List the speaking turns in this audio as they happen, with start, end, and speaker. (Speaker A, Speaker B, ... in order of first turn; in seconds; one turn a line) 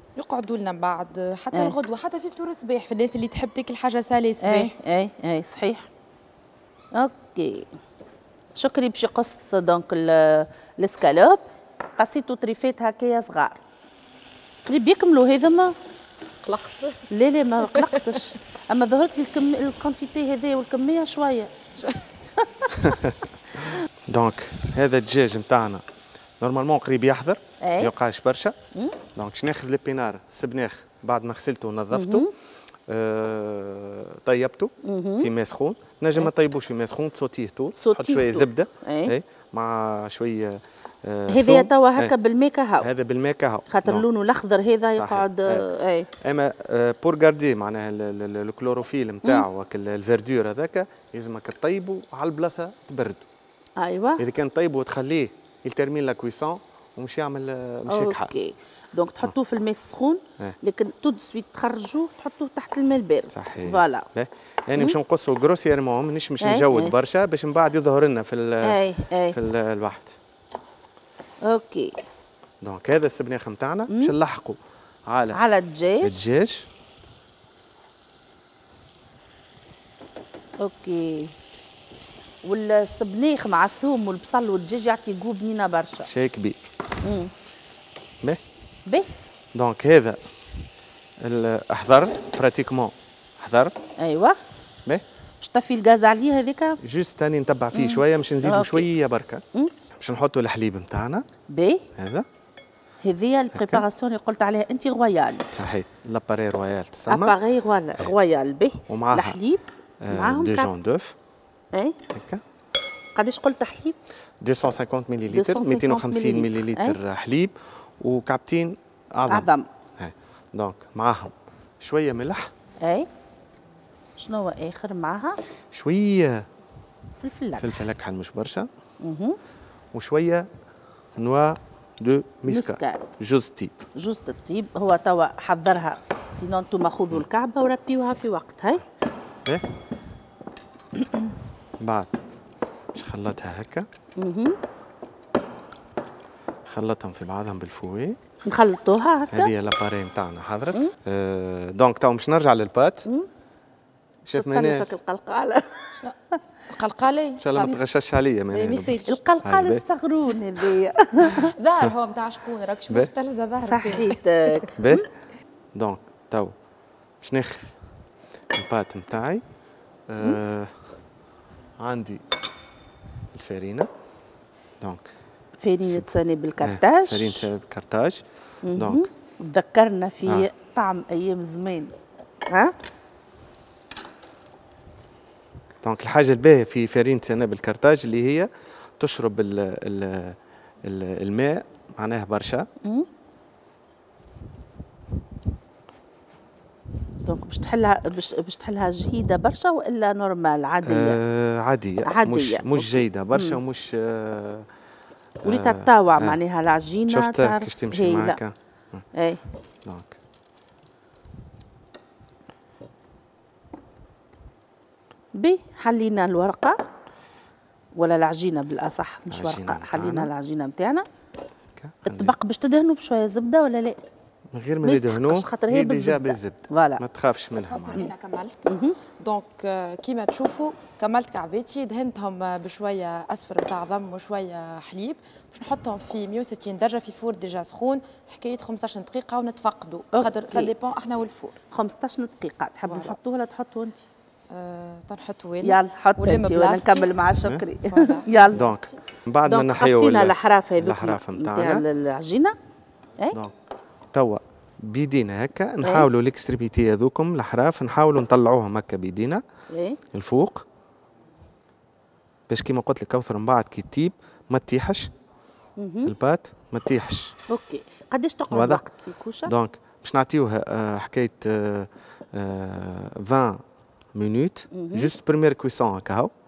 Speaker A: 0.2-4.7
Speaker B: 4.4-5.9
Speaker B: 6.9-7.7
Speaker B: 8.6-11.4
Speaker B: 12.0-13.6
Speaker B: 14.7-15.8
Speaker A: 16.4-17.1
Speaker B: 17.1-21.7
Speaker A: 17.6-18.2
Speaker C: 22.8-23.2
Speaker C: 24.1-25.9
Speaker C: 26.4-28.6
Speaker B: 27.6-27.9
Speaker C: 29.1-32.3
Speaker B: 31.9-32.3
Speaker C: 32.9-42.1
Speaker B: 34.8-35.3
Speaker B: 37.8-39.1
Speaker B: 41.3-42.9
Speaker C: 42.8-44.1
Speaker B: 43.7-46.1
Speaker C: 44.9-45.7
Speaker C: 46.2-53.2
Speaker B: 53.8-54.2
Speaker C: 54.2-58.3
Speaker B: 57.9-64.1
Speaker C: 63.3-70.2
Speaker B: 66.4-66.9
Speaker B: 68.6-69.4
Speaker B: 71.5-71.9
Speaker C: 72.6-75.4
Speaker B: 73.9-74.2
Speaker B: 75.3-76.2
Speaker C: 76.0-76.7
Speaker B: 80.6-81.3
Speaker B: 82.4-86.1
Speaker C: 86.1-86.6
Speaker B: 87.0-87.3
Speaker C: 89.5-90.2
Speaker C: 91.2-93.8
Speaker B: 94.0-94.4
Speaker B: 95.4-96.8
Speaker C: 96.8-99.4
Speaker B: 97.7-98.9
Speaker C: 99.9-101.3
Speaker B: 101.5-101.9
Speaker C: 102.0-102.3
Speaker B: 103.0-105.5
Speaker C: 103.5-103.8
Speaker C: 105.5-107.4
Speaker B: 107.1-110.7
Speaker C: 108.9-109.4
Speaker C: 110.0-111.2
Speaker C: 112.1-112.4
Speaker B: 113.2-114.0
Speaker C: 114.4-122.5
Speaker B: 115.3-117.0
Speaker B: 119.3-119.7
Speaker B: 122.8-123.1
Speaker B: 124.2-125.4
Speaker C: 125.7-126.5
Speaker B: 127.2-127.7
Speaker C: 127.6-128.7
Speaker B: 129.0-129.4
Speaker C: 129.9-130.5
Speaker C: 131.2-133.8
Speaker B: 132.5-133.1
Speaker B: 133.9-138.8
Speaker C: 141.8-142.2
Speaker C: 142.9-143.9
Speaker B: 144.2-144.6
Speaker C: 146.7-148.2
Speaker B: 148.5-149.5
Speaker C: 149.3-153.1
Speaker C: 154.2-154.9
Speaker B: 154.3-155.8
Speaker A: 156.7-157.8
Speaker C: 157.4-159.8
Speaker A: 158.5-159.2
Speaker B: 159.1-161.5
Speaker A: 161.5-164.6
Speaker B: 163.6-164.8
Speaker C: 164.8-165.1
Speaker C: 165.8-166.5
Speaker C: 167.2-167.8
Speaker C: 168.5-169.4
Speaker C: 170.1-171.0
Speaker C: 171.8-172.2
Speaker C: 173.3-173.9
Speaker B: 175.6-177.5
Speaker C: 175.8-176.1
Speaker C: 176.6-178.2
Speaker B: 178.6-181.9
Speaker C: 178.8-179.1
Speaker B: 182.5-182.7
Speaker C: 185.8-192.7
Speaker B: 197.2-201.2
Speaker C: 200.8-204.7
Speaker B: 202.1-203.6
Speaker C: 205.4-206.4
Speaker B: 205.4-208.4
Speaker C: 207.1-209.1
Speaker B: 209.2-209.4
Speaker C: 209.8-210.1
Speaker B: 215.3-216.8
Speaker B: 218.0-221.1
Speaker C: 219.3-220.3
Speaker C: 221.8-222.3
Speaker B: 222.1-224.0
Speaker C: 224.5-228.1
Speaker B: 224.8-227.0
Speaker A: 227.7-228.7
Speaker B: 228.7-229.0
Speaker A: 229.2-241.6
Speaker B: 240.1-240.7
Speaker B: 241.7-244.1
Speaker A: 242.9-243.2
Speaker A: 244.5-247.2
Speaker B: 245.6-248.6
Speaker A: 247.8-249.0
Speaker C: 248.5-251.8
Speaker B: 249.5-252.6
Speaker C: 254.1-259.4
Speaker B: 255.8-256.1
Speaker B: 259.7-260.0
Speaker C: 260.1-260.6
Speaker C: 262.5-265.1
Speaker B: 265.8-266.1
Speaker C: 266.1-267.4
Speaker B: 267.5-269.5
Speaker C: 268.5-268.9
Speaker C: 269.4-276.3
Speaker B: 274.7-275.1